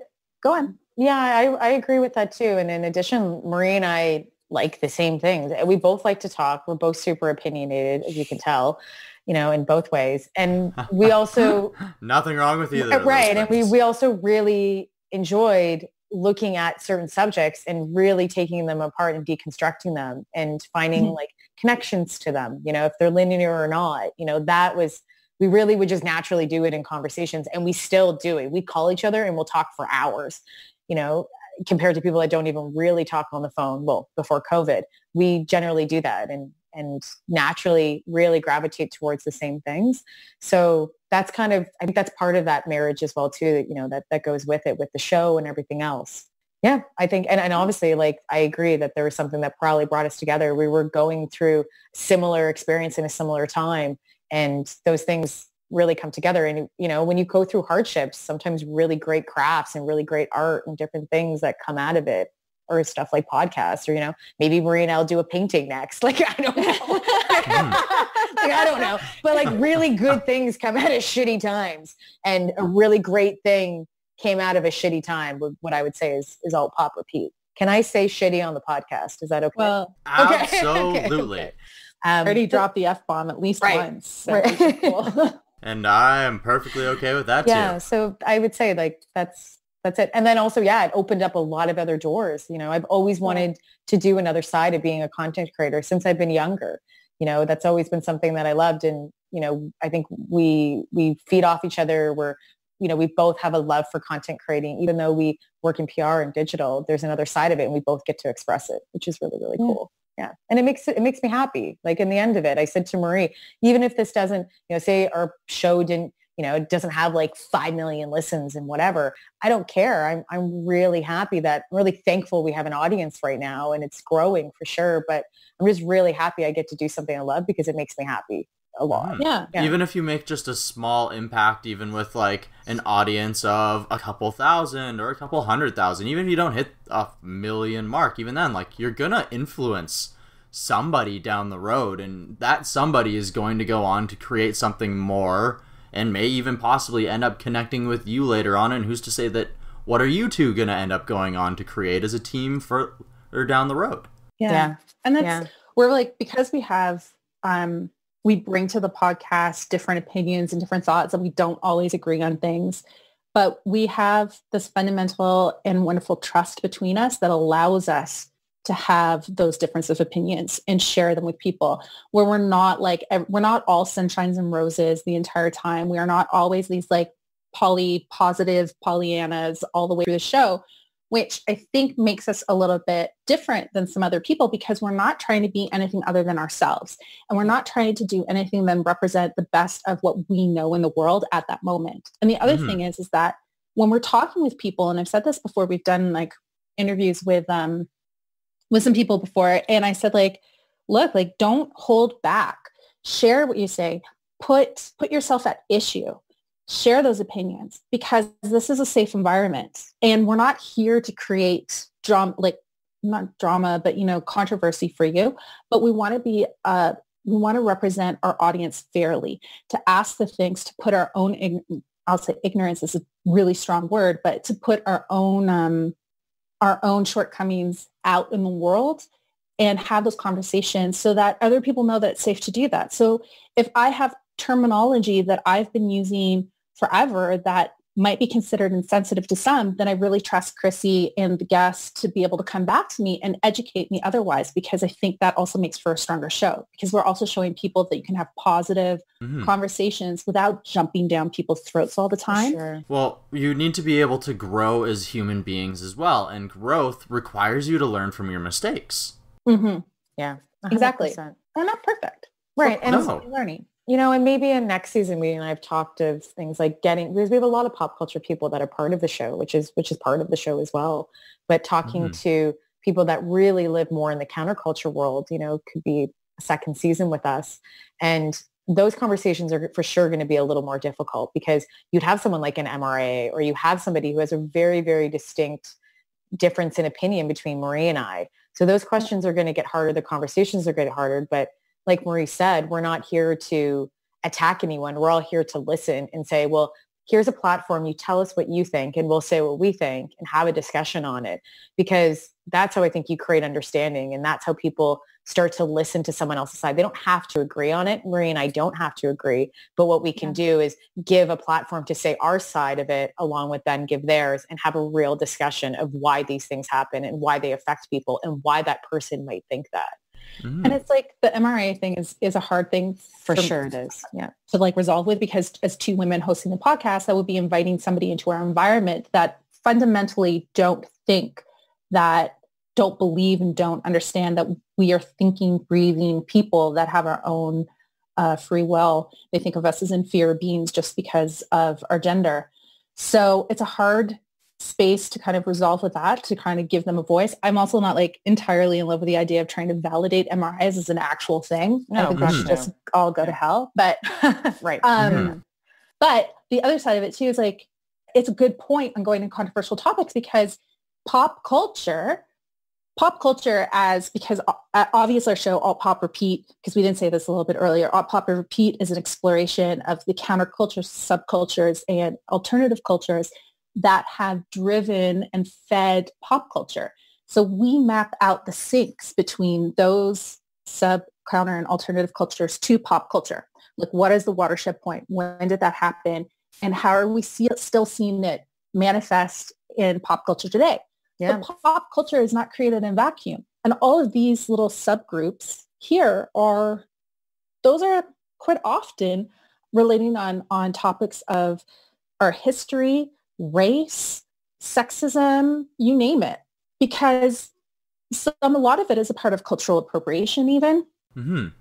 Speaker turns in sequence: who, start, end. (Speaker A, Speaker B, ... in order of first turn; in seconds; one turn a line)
Speaker A: 0.4-0.8
Speaker B: 0.9-11.8
Speaker C: 11.9-13.7
Speaker B: 12.8-82.6
Speaker A: 66.6-69.2
Speaker C: 67.5-67.8
Speaker A: 79.6-79.9
Speaker C: 80.1-81.5
Speaker A: 82.2-85.4
Speaker B: 83.6-85.0
Speaker C: 85.6-87.8
Speaker B: 87.4-129.8
Speaker C: 128.9-154.1
Speaker A: 129.2-129.5
Speaker A: 154.4-162.8
Speaker B: 154.5-155.5
Speaker A: 163.3-197.9
Speaker C: 192.4-192.8
Speaker A: 198.7-225.9
Speaker A: 226.6-229.1
Speaker A: 229.6-252.6
Speaker C: 249.2-249.5
Speaker B: 252.3-252.8
Speaker C: 252.9-259.1
Speaker A: 259.5-259.8
Speaker B: 260.2-261.4
Speaker A: 260.7-263.7
Speaker B: 262.6-263.1
Speaker C: 262.9-263.2
Speaker B: 263.9-285.8
Speaker C: 271.9-272.2
Speaker B: 286.4-319.9
Speaker C: 320.4-320.8
Speaker A: 320.6-323.6
Speaker B: 323.2-324.3
Speaker A: 324.5-354.2
Speaker B: 351.9-352.7
Speaker C: 352.2-352.5
Speaker B: 354.5-355.3
Speaker A: 354.8-355.4
Speaker C: 355.0-355.3
Speaker A: 356.0-362.2
Speaker A: 363.0-396.9
Speaker B: 391.2-391.4
Speaker A: 397.6-401.6
Speaker A: 402.2-407.5
Speaker A: 408.1-410.9
Speaker C: 411.2-411.5